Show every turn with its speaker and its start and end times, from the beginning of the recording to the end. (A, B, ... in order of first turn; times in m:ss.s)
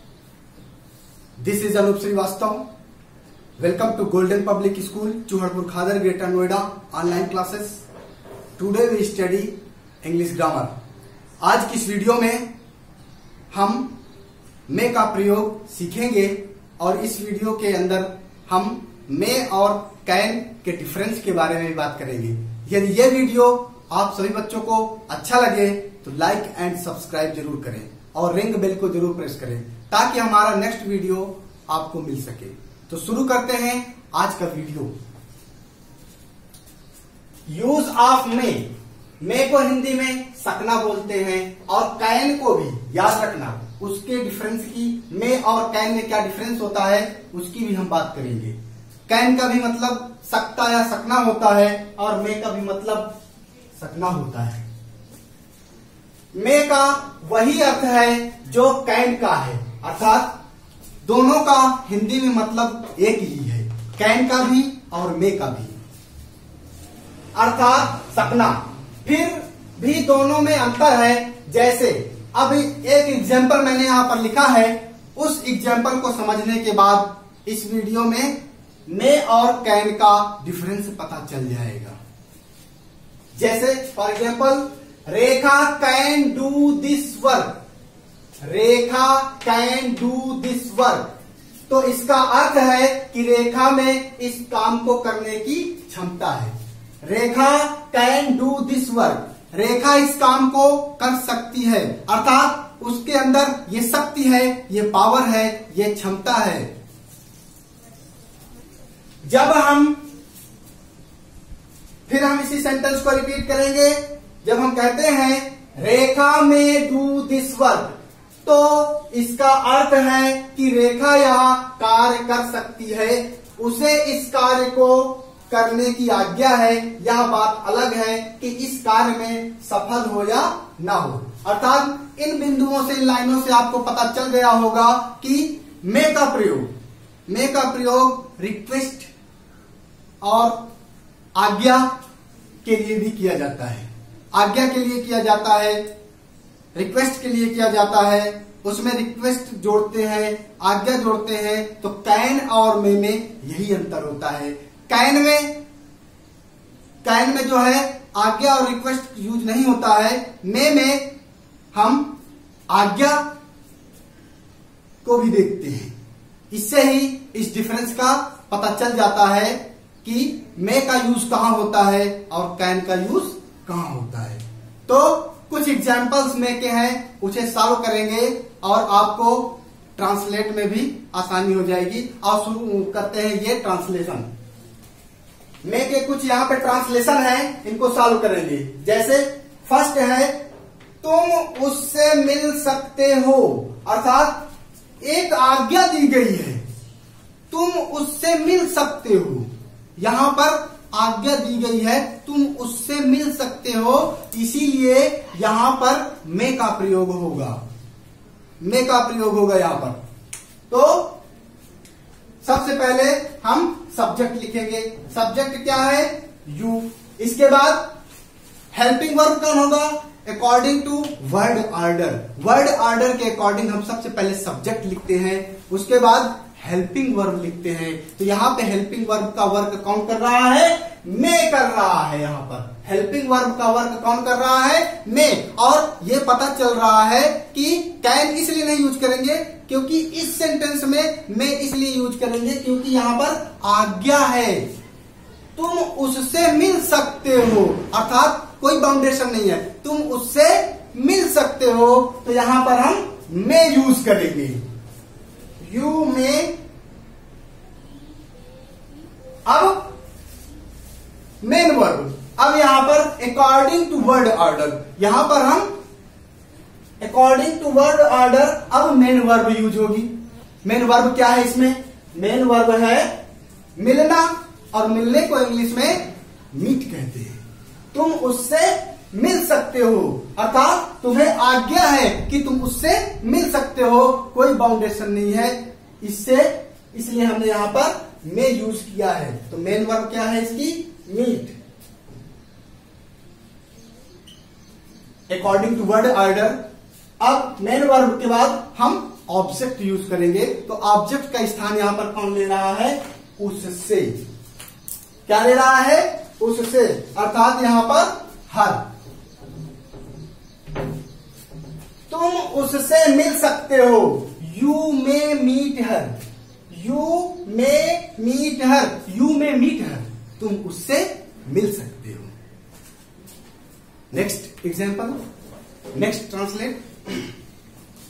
0:01.4-0:02.6 A
0:03.6-0:07.8 A
0:08.6-0:10.7 A
0:11.4-0:12.5 A
0:13.5-0:13.9 A
0:14.7-0:34.9 A
0:37.5-0:38.7 A
0:39.2-0:48.6 A
0:49.1-0:53.2 A
0:53.8-0:54.6 A
0:56.3-1:00.3 A
1:01.0-1:05.8 A
1:07.4-1:22.0 A
1:23.4-1:27.5 A
1:28.4-1:31.1 A
1:31.7-1:46.7 A
1:49.2-1:50.0 A
1:52.1-2:16.7 A
2:17.3-2:19.1 A
2:20.2-2:20.6 A
2:21.4-2:21.9 A
2:22.6-2:25.8 A
2:26.8-2:35.5 A
2:37.0-2:41.1 A
2:41.7-2:42.1 A
2:42.7-2:43.2 A
2:45.0-2:45.9 A
2:46.5-3:04.3 A
3:05.6-3:10.3 A
3:11.0-3:14.4 A
3:15.0-3:16.6 A
3:17.5-3:27.6 A
3:28.6-3:30.0 A
3:30.7-3:31.1 A
3:32.4-3:37.9 A
3:38.7-4:04.7 A
4:05.6-4:14.6 A
4:15.6-4:16.5 A
4:19.5-4:19.9 A
4:21.4-4:25.7 A
4:27.0-4:30.1 A
4:30.6-4:33.1 A
4:33.8-4:37.4 A
4:37.9-4:51.6 A
4:55.3-4:56.6 A
4:57.2-5:04.2 A
5:05.3-5:08.8 A
5:12.1-5:16.2 A
5:16.7-5:22.3 A
5:24.1-5:25.2 A
5:25.9-5:27.3 A